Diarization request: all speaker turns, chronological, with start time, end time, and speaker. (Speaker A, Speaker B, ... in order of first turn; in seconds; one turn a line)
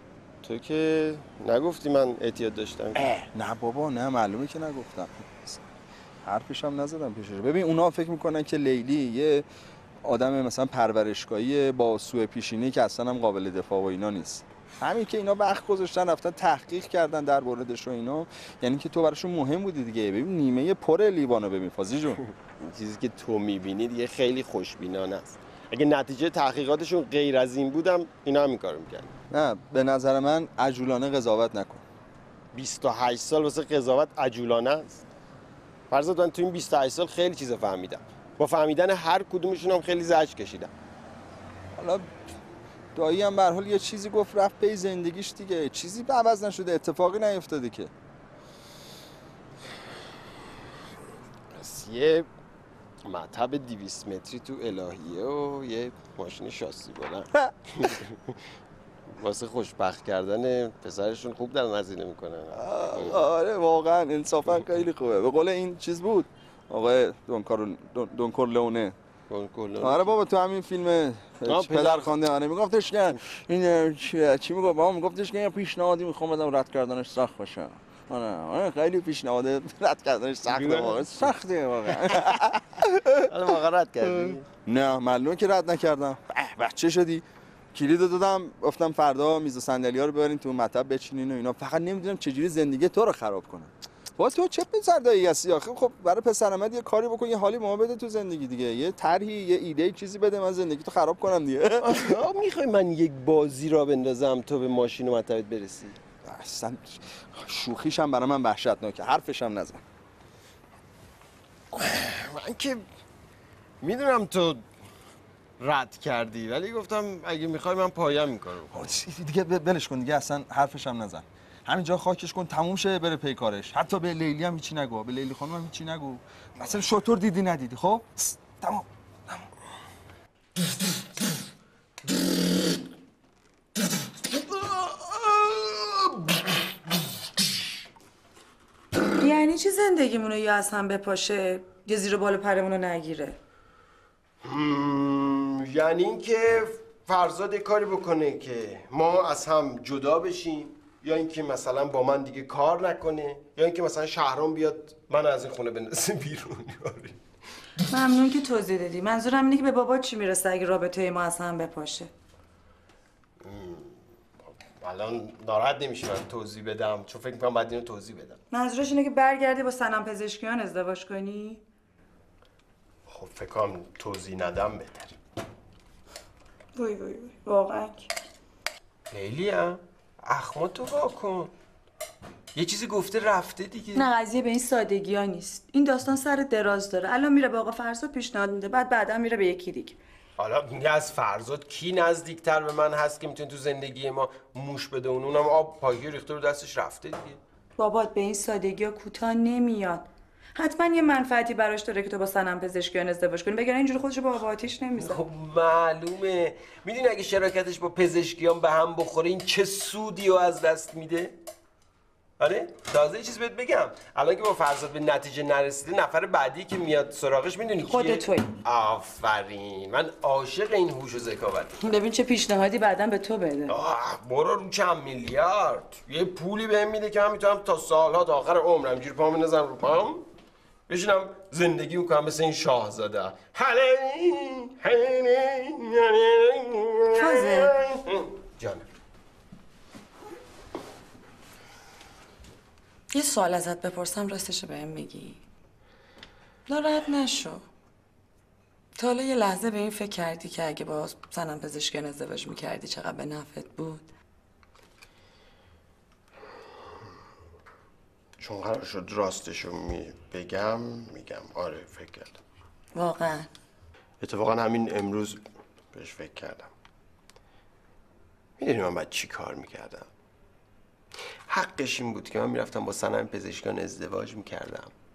Speaker A: 0.4-3.1
Speaker B: 3.0-5.6
Speaker B: 6.2-9.5
Speaker B: 10.0-22.2
Speaker A: 22.6-29.1
Speaker B: 29.3-31.9
Speaker A: 32.5-35.0
Speaker A: 35.9-40.7
Speaker B: 41.8-42.1
Speaker B: 43.0-47.9
Speaker A: 51.5-52.3
Speaker A: 53.0-58.4
Speaker B: 57.4-57.9
Speaker A: 59.1-63.2
Speaker B: 62.5-69.0
Speaker A: 69.3-70.1
Speaker B: 69.8-83.3
Speaker A: 71.5-72.1
Speaker A: 80.5-81.3
Speaker A: 83.2-84.4
Speaker B: 84.0-102.2
Speaker A: 101.8-106.0
Speaker B: 106.2-109.8
Speaker A: 111.7-112.9
Speaker A: 113.8-114.6
Speaker A: 115.6-118.8
Speaker B: 118.7-129.5
Speaker A: 134.5-136.0
Speaker C: 139.2-143.4
Speaker A: 144.4-157.2
Speaker C: 157.9-162.1
Speaker A: 163.4-164.0
Speaker A: 164.8-168.4
Speaker C: 168.5-171.6
Speaker A: 173.1-175.2
Speaker C: 176.8-178.1
Speaker A: 179.1-181.5
Speaker A: 182.6-184.1
Speaker C: 183.9-190.0
Speaker A: 190.4-197.4
Speaker C: 197.8-205.2
Speaker A: 205.0-211.4
Speaker A: 212.4-221.8
Speaker C: 217.8-218.5
Speaker C: 221.8-223.8
Speaker A: 223.7-230.2
Speaker A: 230.9-238.8
Speaker C: 237.1-237.8
Speaker C: 243.1-245.4
Speaker C: 246.7-247.7
Speaker C: 249.0-254.1
Speaker A: 258.4-262.4
Speaker C: 262.9-263.5
Speaker A: 264.2-265.4
Speaker A: 265.9-266.7
Speaker A: 268.6-270.1
Speaker A: 271.5-274.9